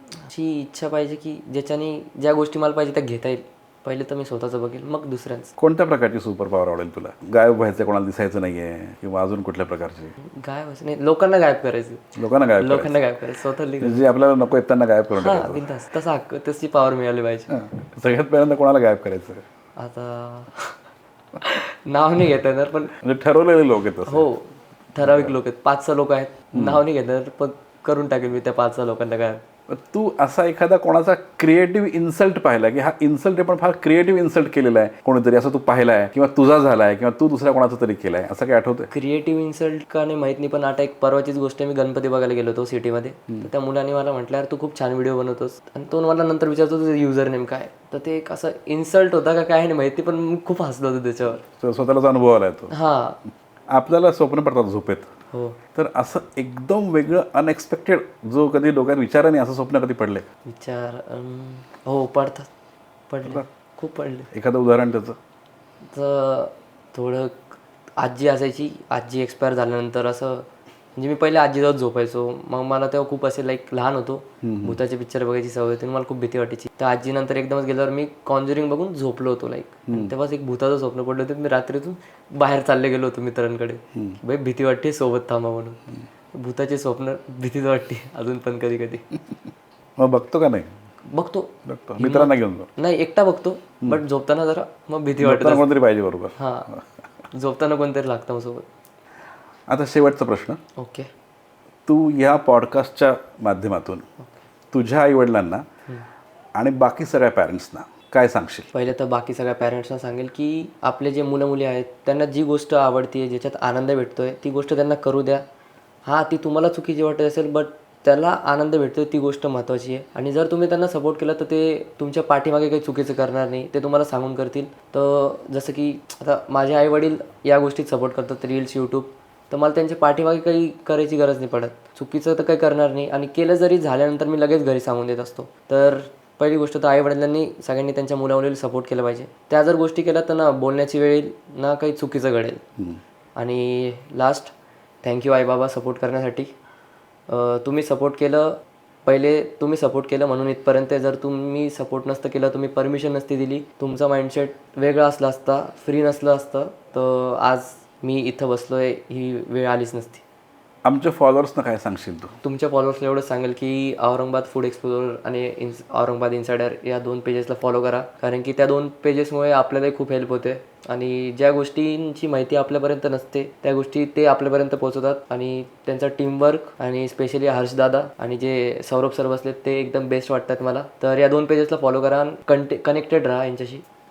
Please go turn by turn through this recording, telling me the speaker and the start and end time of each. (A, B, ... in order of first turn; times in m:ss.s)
0:00.3-0:05.5 A
0:05.6-0:10.2 B
0:10.2-0:12.0 A
0:12.2-0:13.0 B
0:12.6-0:14.0 A
0:13.8-0:15.7 B
0:15.1-0:17.5 A
0:17.5-0:19.4 B
0:19.8-0:20.8 A
0:21.4-0:22.9 A
0:23.0-0:24.3 B
0:24.1-0:29.4 A
0:25.0-0:25.3 B
0:26.5-0:26.8 B
0:29.7-0:38.9 B
0:38.9-0:51.4 A
0:51.5-0:52.7 B
0:52.7-0:53.2 A
0:53.7-0:55.1 B
0:55.3-0:55.6 A
0:55.8-1:00.3 B
1:00.5-1:02.5 A
1:03.1-1:04.3 A
1:04.3-1:05.2 B
1:05.9-1:07.4 A
1:08.0-1:25.8 A
1:14.4-1:14.8 B
1:19.9-1:20.1 B
1:26.4-1:29.0 A
1:30.0-1:30.7 B
1:31.1-1:35.6 A
1:31.6-1:32.7 B
1:35.2-1:36.7 B
1:36.4-1:36.7 A
1:37.3-1:38.7 A
1:39.7-1:40.6 B
1:40.8-1:41.1 A
1:41.9-1:44.0 B
1:44.7-1:45.6 B
1:46.6-1:48.7 B
1:48.7-1:55.4 A
1:56.1-2:22.6 A
2:23.4-2:24.5 A
2:25.0-2:26.5 A
2:27.3-2:40.2 A
2:40.8-2:42.4 B
2:42.4-3:03.8 A